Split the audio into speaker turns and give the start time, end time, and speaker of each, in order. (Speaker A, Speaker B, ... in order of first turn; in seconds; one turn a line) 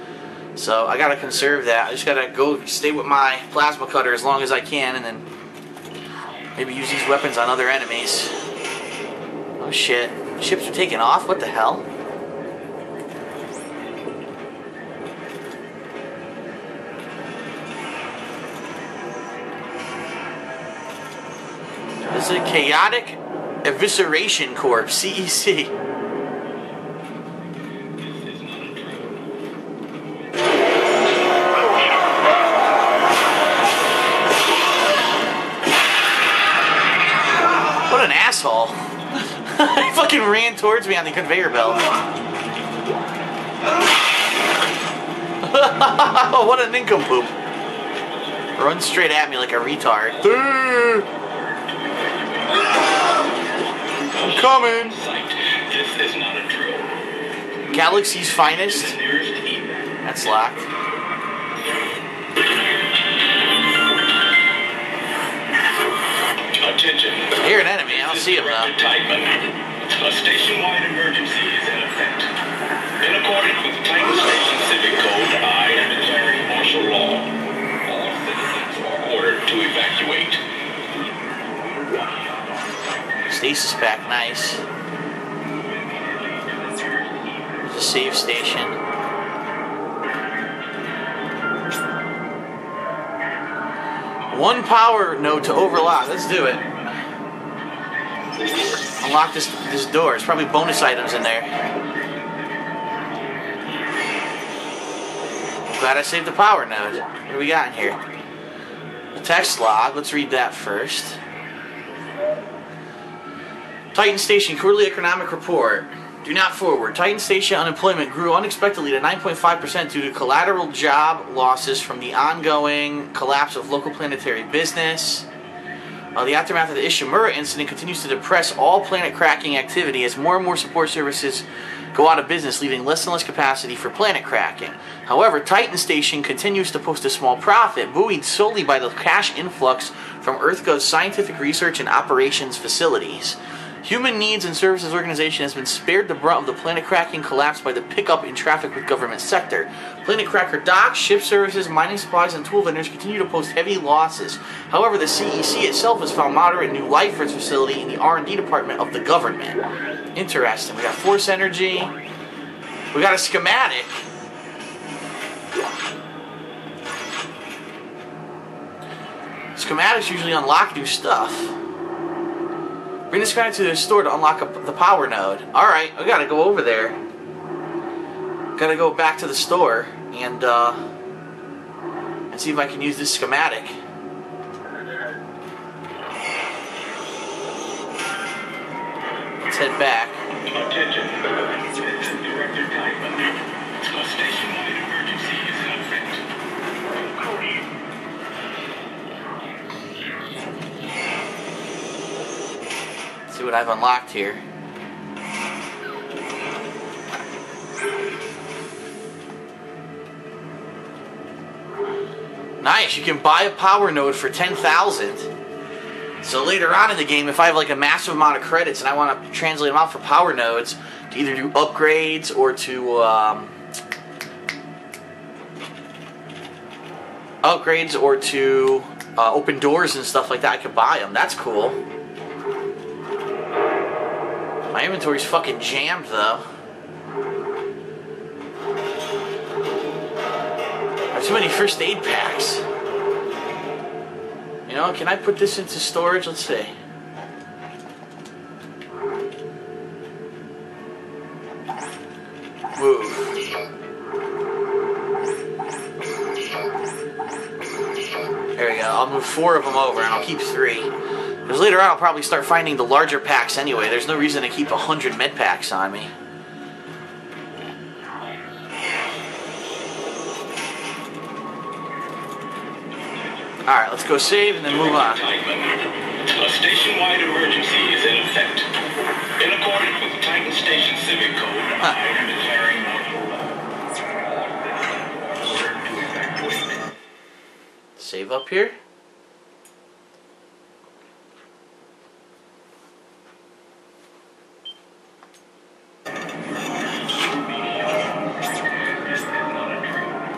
Speaker A: 0.5-5.3
Speaker A: 6.5-8.3
Speaker A: 9.6-11.8
Speaker A: 22.0-25.7
Speaker B: 28.0-29.2
Speaker A: 37.8-41.9
Speaker A: 45.4-47.3
Speaker A: 48.5-51.1
Speaker B: 51.1-52.7
Speaker B: 54.0-56.9
Speaker A: 54.1-55.0
Speaker A: 57.7-59.0
Speaker B: 58.7-59.9
Speaker A: 60.0-60.7
Speaker B: 66.6-72.3
Speaker A: 67.3-68.7
Speaker B: 73.0-77.3
Speaker B: 77.8-80.4
Speaker A: 83.3-84.6
Speaker A: 87.6-88.8
Speaker A: 94.3-96.7
Speaker A: 99.0-101.5
Speaker A: 105.7-108.0
Speaker A: 109.1-111.2
Speaker A: 113.9-125.3
Speaker A: 126.1-159.6
Speaker A: 160.1-161.9
Speaker A: 162.9-164.0
Speaker A: 169.5-171.6
Speaker A: 173.1-177.0
Speaker A: 178.5-180.8
Speaker A: 182.3-183.8
Speaker A: 189.4-190.2
Speaker B: 190.5-196.2
Speaker A: 203.3-204.4
Speaker A: 212.6-215.3
Speaker A: 216.2-223.5
Speaker A: 227.4-231.8
Speaker A: 234.7-236.4
Speaker A: 241.1-242.6
Speaker A: 244.7-246.7
Speaker A: 252.7-253.4
Speaker A: 258.6-260.9
Speaker A: 261.4-266.1
Speaker A: 273.6-275.2
Speaker B: 274.6-278.7
Speaker B: 279.4-283.6
Speaker B: 284.7-286.8
Speaker A: 288.0-288.8
Speaker B: 297.4-298.1
Speaker B: 299.1-300.1